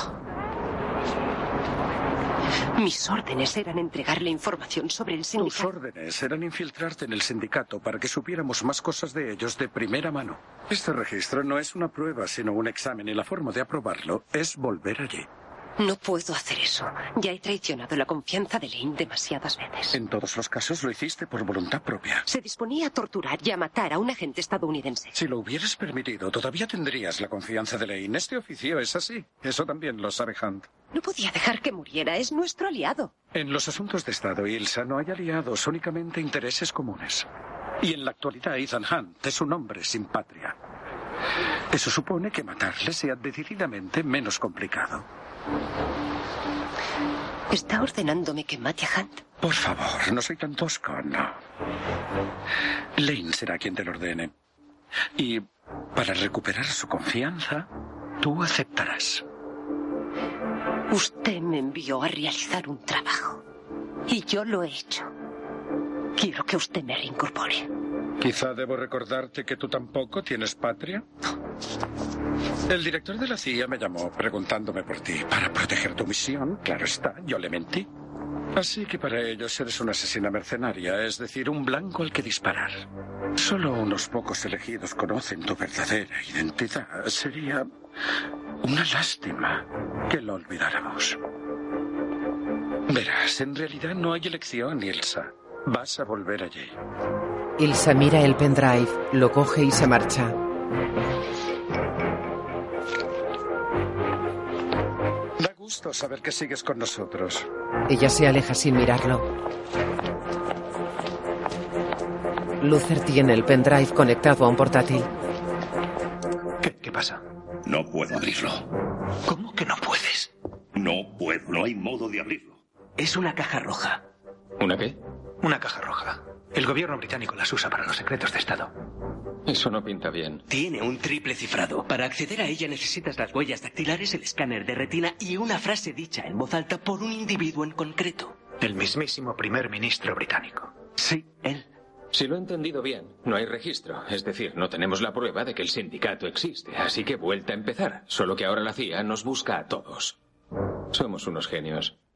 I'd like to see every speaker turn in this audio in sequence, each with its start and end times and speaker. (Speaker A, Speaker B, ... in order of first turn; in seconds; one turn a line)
Speaker A: 2.8-5.7
Speaker B: 5.4-15.3
Speaker A: 15.8-20.0
Speaker B: 19.9-22.2
Speaker A: 22.3-25.1
Speaker B: 25.1-30.7
Speaker A: 30.9-33.1
Speaker B: 33.3-37.3
Speaker B: 37.8-40.5
Speaker B: 41.7-45.0
Speaker A: 47.5-49.2
Speaker B: 49.4-51.4
Speaker B: 53.0-54.3
Speaker B: 55.1-57.7
Speaker B: 58.2-59.2
Speaker A: 60.9-63.4
Speaker A: 64.1-65.1
Speaker A: 66.2-67.7
Speaker B: 68.2-71.1
Speaker B: 72.7-77.9
Speaker B: 78.5-87.7
Speaker B: 88.6-91.2
Speaker B: 92.9-96.8
Speaker C: 97.6-100.3
Speaker B: 105.4-107.5
Speaker C: 107.9-109.3
Speaker C: 112.6-115.1
Speaker D: 116.6-117.2
Speaker E: 117.6-118.7
Speaker D: 119.2-120.3
Speaker E: 120.7-122.6
Speaker F: 123.0-124.0
Speaker G: 124.6-125.0
Speaker D: 125.4-128.7
Speaker G: 129.4-130.4
Speaker F: 130.5-138.4
Speaker D: 138.6-140.7
Speaker F: 141.0-141.7
Speaker G: 142.1-150.2
Speaker G: 150.9-151.9